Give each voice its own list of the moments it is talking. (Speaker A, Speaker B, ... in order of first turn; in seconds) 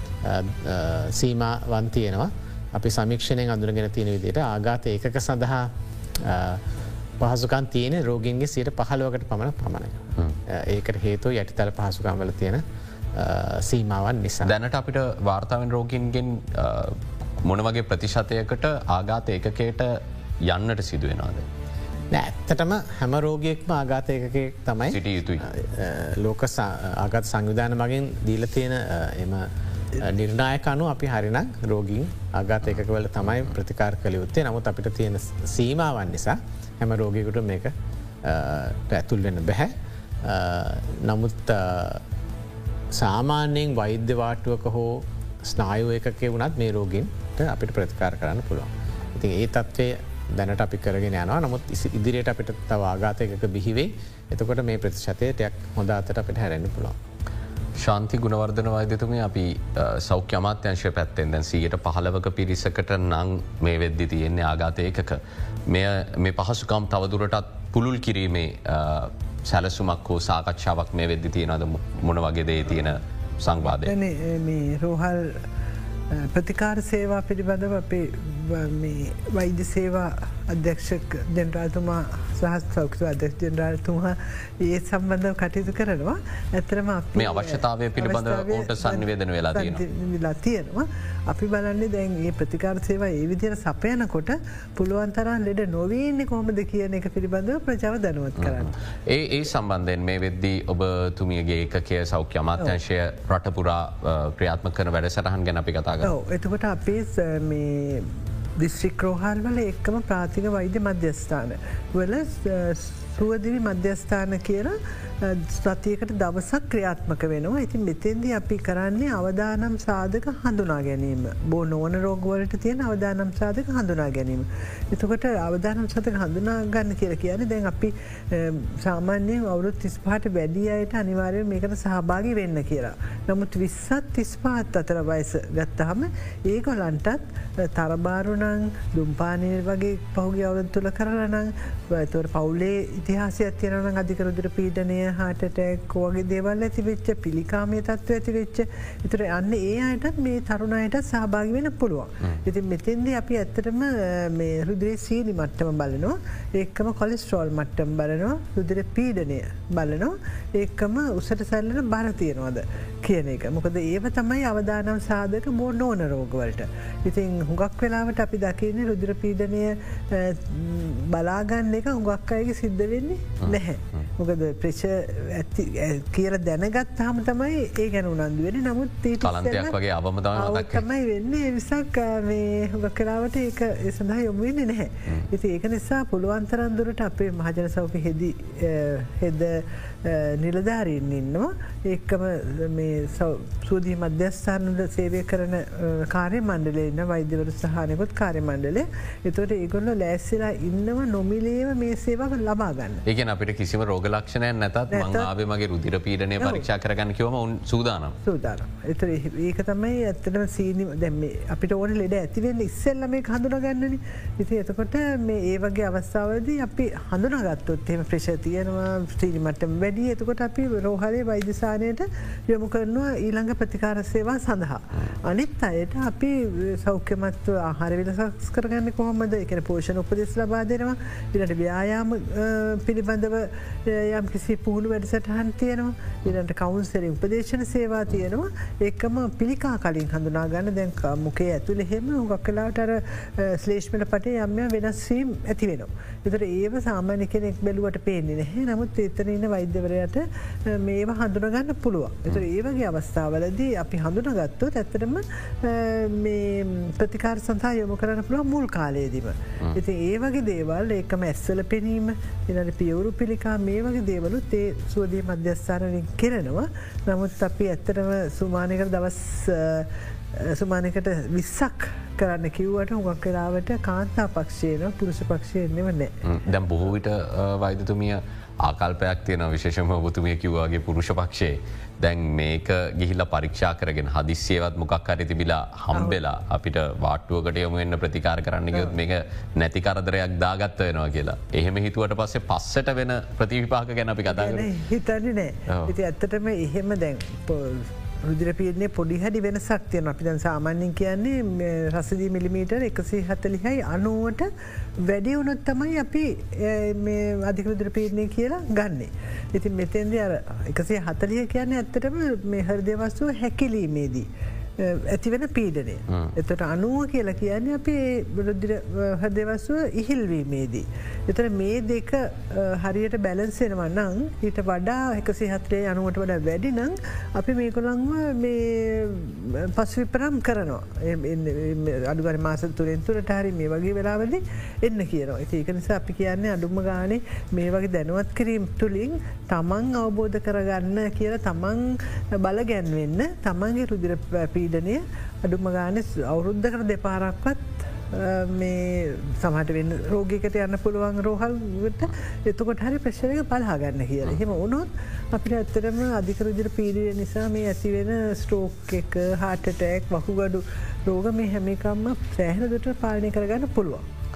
Speaker A: 0.2-6.6, 7.2-12.6, 13.1-14.5, 22.1-29.5, 30.0-37.7, 38.2-42.0, 43.0-57.0
Speaker B: 14.4-21.4, 24.9-25.4, 57.8-73.9, 87.2-89.8, 98.4-106.1, 173.4-174.1, 179.2-180.8, 203.1-208.2, 276.2-294.7, 295.7-295.9, 316.1-316.4
Speaker C: 73.7-75.4, 76.1-98.7, 106.0-179.8, 180.3-203.0, 204.9-205.3, 208.2-276.1, 285.9-286.2, 294.2-364.0